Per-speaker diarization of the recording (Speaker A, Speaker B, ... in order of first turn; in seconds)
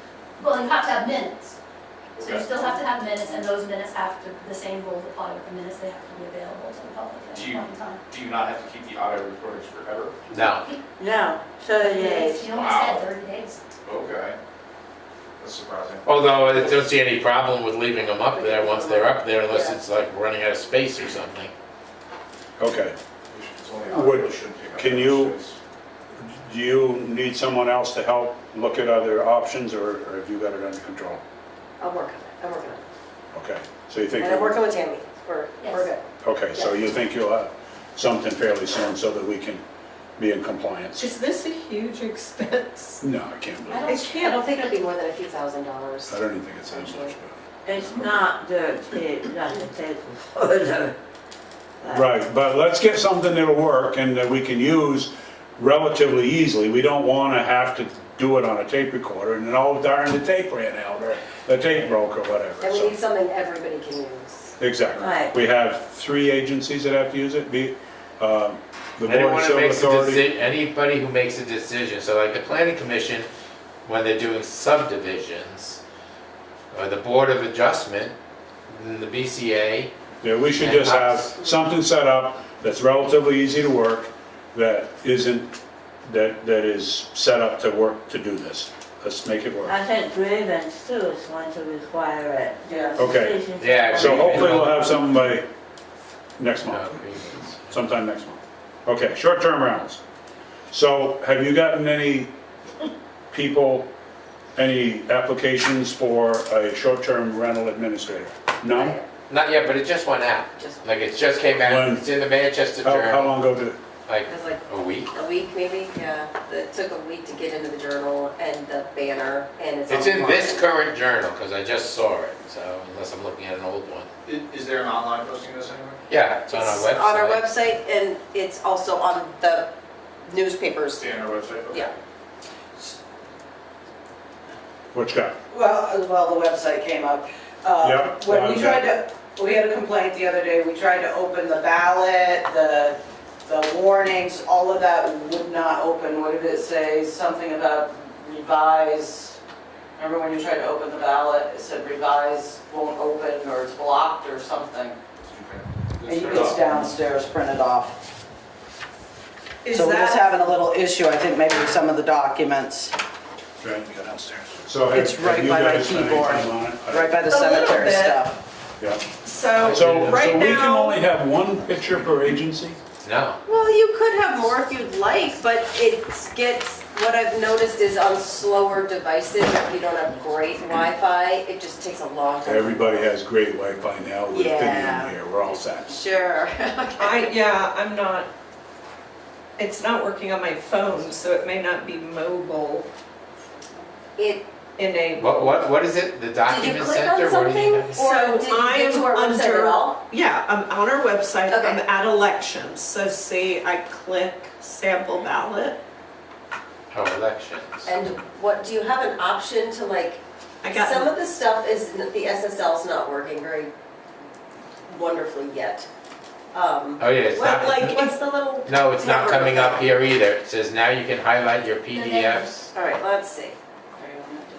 Speaker A: 0.4-1.6, 2.2-8.0, 10.3-10.8, 11.8-13.6, 35.6-35.9, 43.7-44.2, 221.9-222.7
Speaker B: 2.1-2.7, 7.3-10.2, 12.7-13.1, 13.8-14.4, 15.4-16.7, 23.3-25.6, 124.2-126.0, 131.0-131.9, 155.2-156.9
Speaker C: 10.3-10.7, 12.5-12.9, 16.0-21.5, 69.0-73.3, 73.8-75.8, 76.7-78.1, 78.7-79.9, 80.5-81.3, 93.6-94.7, 96.7-97.7, 109.3-113.3, 114.1-115.1, 119.9-124.1, 126.1-127.4, 169.6-170.4, 173.0-173.4, 195.2-198.0, 206.9-207.9, 217.0-217.9, 218.7-222.7
Speaker D: 10.9-12.5, 47.6-50.9, 51.8-52.1, 64.9-65.3, 89.7-95.1
Speaker E: 18.3-19.8, 31.8-32.8, 34.2-36.0, 44.1-47.1, 62.6-64.5, 108.7-109.1, 114.3-120.7, 126.5-129.7, 130.2-131.1, 173.4-183.1, 184.3-187.3, 194.2-194.4, 196.4-200.0, 201.5-201.8, 207.8-213.7, 214.9-215.9, 216.5-219.9, 222.7-223.6
Speaker F: 22.6-22.9, 23.9-25.3, 26.2-31.2, 33.3-34.6, 36.2-39.6, 40.2-41.0, 43.0-44.0, 46.1-47.4, 51.9-63.0, 64.6-70.3, 80.2-85.5, 86.0-89.8, 93.0-93.4, 93.9-95.5, 96.4-97.0, 97.7-100.0, 100.7-102.3, 103.3-103.9, 104.5-109.0, 111.6-112.1, 112.8-113.8, 134.9-135.3, 137.8-138.9, 163.6-167.2, 169.7-172.8, 182.4-186.0
Speaker G: 41.0-43.0, 43.8-44.5, 159.6-160.7, 167.2-168.2, 169.2-171.0, 187.0-188.3, 189.6-192.9, 194.8-195.6, 198.0-205.8, 210.6-211.1
Speaker H: 92.6-93.1, 135.5-149.4, 150.0-155.0, 156.1-158.0, 159.7-162.9, 164.9-168.4, 224.0-224.4